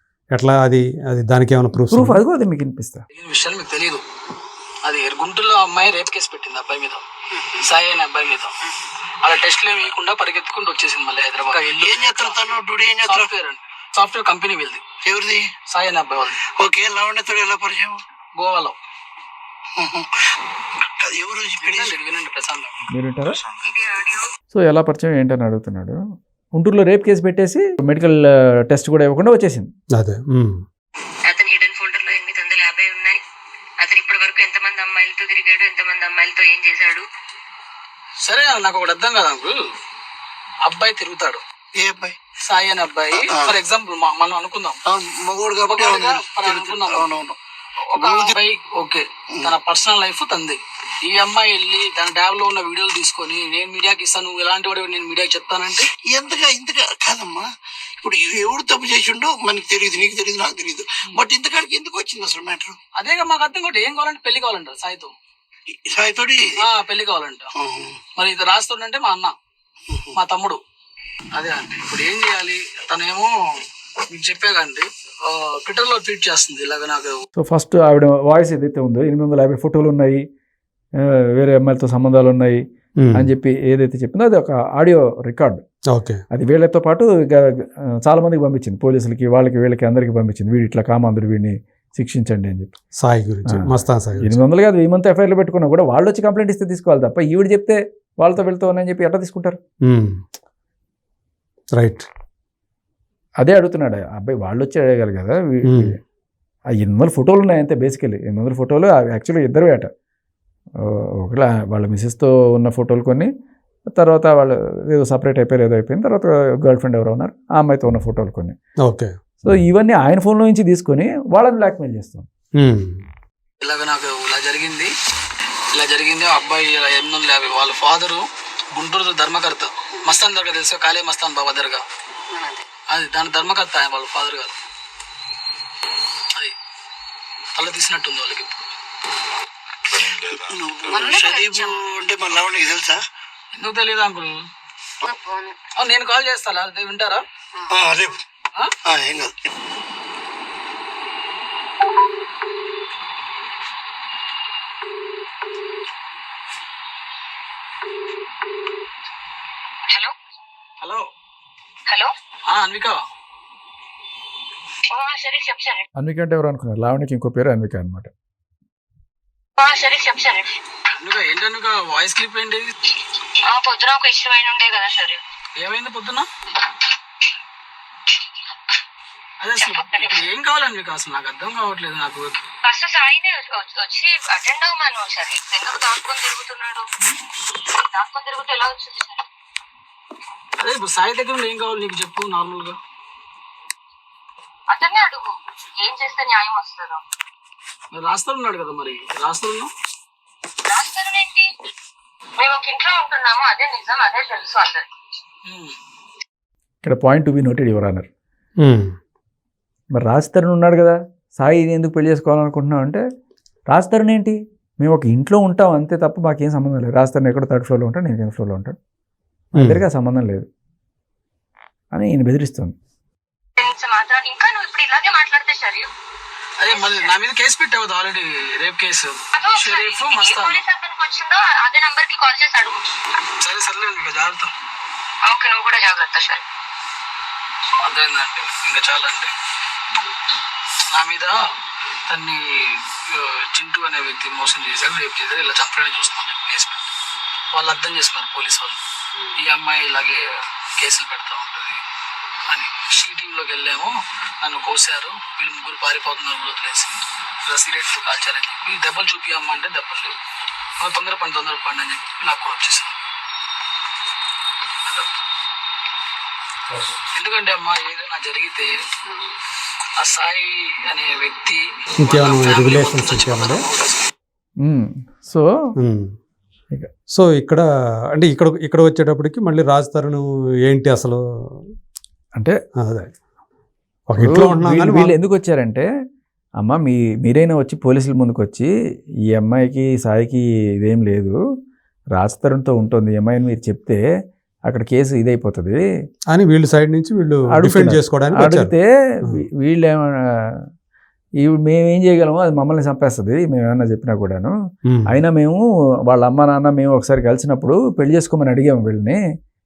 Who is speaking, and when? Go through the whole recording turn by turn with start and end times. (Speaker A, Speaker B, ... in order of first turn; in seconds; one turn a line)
Speaker A: 0.3-2.2
Speaker B: 1.9-3.0
Speaker C: 3.1-4.0
Speaker C: 4.8-7.0
Speaker C: 7.6-8.6
Speaker C: 9.2-12.4
Speaker D: 11.5-13.3
Speaker C: 13.0-14.8
Speaker D: 15.0-15.5
Speaker C: 15.7-16.4
Speaker D: 16.6-18.0
Speaker C: 18.4-18.7
Speaker D: 19.8-20.1
Speaker D: 21.0-21.9
Speaker C: 21.6-22.8
Speaker B: 22.9-23.4
Speaker E: 23.6-24.3
Speaker B: 24.5-26.0
Speaker B: 26.6-29.7
Speaker A: 29.9-30.6
Speaker E: 31.2-33.2
Speaker E: 33.8-37.0
Speaker C: 38.2-39.6
Speaker C: 40.6-41.4
Speaker D: 41.8-42.2
Speaker C: 42.4-44.8
Speaker D: 43.1-43.6
Speaker D: 44.9-47.4
Speaker C: 45.7-47.1
Speaker D: 47.9-48.3
Speaker C: 47.9-55.9
Speaker D: 56.1-57.5
Speaker D: 58.0-62.8
Speaker C: 63.0-65.1
Speaker D: 65.8-66.6
Speaker C: 66.6-67.5
Speaker D: 67.5-68.0
Speaker C: 68.2-69.3
Speaker D: 69.9-70.2
Speaker C: 70.1-70.6
Speaker C: 71.3-73.3
Speaker C: 74.1-77.2
Speaker B: 77.4-80.2
Speaker B: 81.0-82.6
Speaker A: 83.0-83.3
Speaker B: 83.1-85.6
Speaker A: 85.9-86.2
Speaker B: 86.3-92.7
Speaker A: 93.0-94.4
Speaker B: 94.2-99.6
Speaker A: 99.8-100.2
Speaker A: 101.8-102.1
Speaker B: 103.4-106.0
Speaker A: 105.7-106.0
Speaker B: 106.8-109.9
Speaker B: 110.8-113.3
Speaker B: 113.9-118.5
Speaker A: 118.8-119.1
Speaker B: 119.4-122.3
Speaker A: 122.6-123.0
Speaker C: 123.6-124.9
Speaker C: 125.8-131.8
Speaker E: 132.3-132.6
Speaker C: 132.9-134.6
Speaker C: 137.6-138.6
Speaker D: 140.0-143.0
Speaker E: 140.8-141.8
Speaker C: 143.5-144.3
Speaker E: 145.0-145.6
Speaker C: 145.8-147.2
Speaker D: 147.7-148.2
Speaker D: 148.8-149.5
Speaker E: 159.9-160.1
Speaker E: 161.9-162.1
Speaker C: 162.5-163.0
Speaker E: 164.9-165.8
Speaker B: 166.0-168.1
Speaker E: 169.6-170.5
Speaker C: 171.0-172.7
Speaker E: 173.5-175.2
Speaker C: 175.6-176.3
Speaker C: 179.4-182.4
Speaker E: 179.6-180.2
Speaker E: 182.6-186.9
Speaker E: 187.7-189.2
Speaker C: 190.6-192.8
Speaker E: 194.7-197.0
Speaker C: 197.9-199.7
Speaker E: 200.7-201.5
Speaker E: 202.4-204.9
Speaker C: 205.4-205.8
Speaker B: 206.8-208.1
Speaker A: 208.6-208.9
Speaker B: 209.9-213.0
Speaker B: 213.7-218.8
Speaker B: 219.6-220.5
Speaker A: 219.6-219.8
Speaker B: 221.9-222.8
Speaker E: 223.6-225.9
Speaker C: 226.6-230.6
Speaker E: 226.7-227.1
Speaker E: 229.3-232.8
Speaker C: 233.4-234.5
Speaker E: 235.2-236.4
Speaker C: 237.8-239.3
Speaker C: 240.9-241.4
Speaker C: 242.1-246.8
Speaker C: 247.5-248.8
Speaker C: 249.4-250.2
Speaker C: 250.8-251.8
Speaker C: 252.5-260.2
Speaker C: 260.8-262.9
Speaker C: 267.1-268.8
Speaker C: 270.0-274.1
Speaker A: 272.0-273.6
Speaker B: 274.6-275.4
Speaker A: 275.8-276.1
Speaker A: 277.1-277.6
Speaker A: 278.1-281.2
Speaker A: 282.8-283.1
Speaker A: 284.1-285.1
Speaker B: 284.2-285.9
Speaker B: 286.6-288.7
Speaker B: 289.3-291.4
Speaker B: 292.1-294.0
Speaker B: 294.7-295.8
Speaker A: 296.3-298.7
Speaker B: 297.5-300.6
Speaker B: 301.4-304.5
Speaker A: 304.9-305.2
Speaker B: 305.1-309.2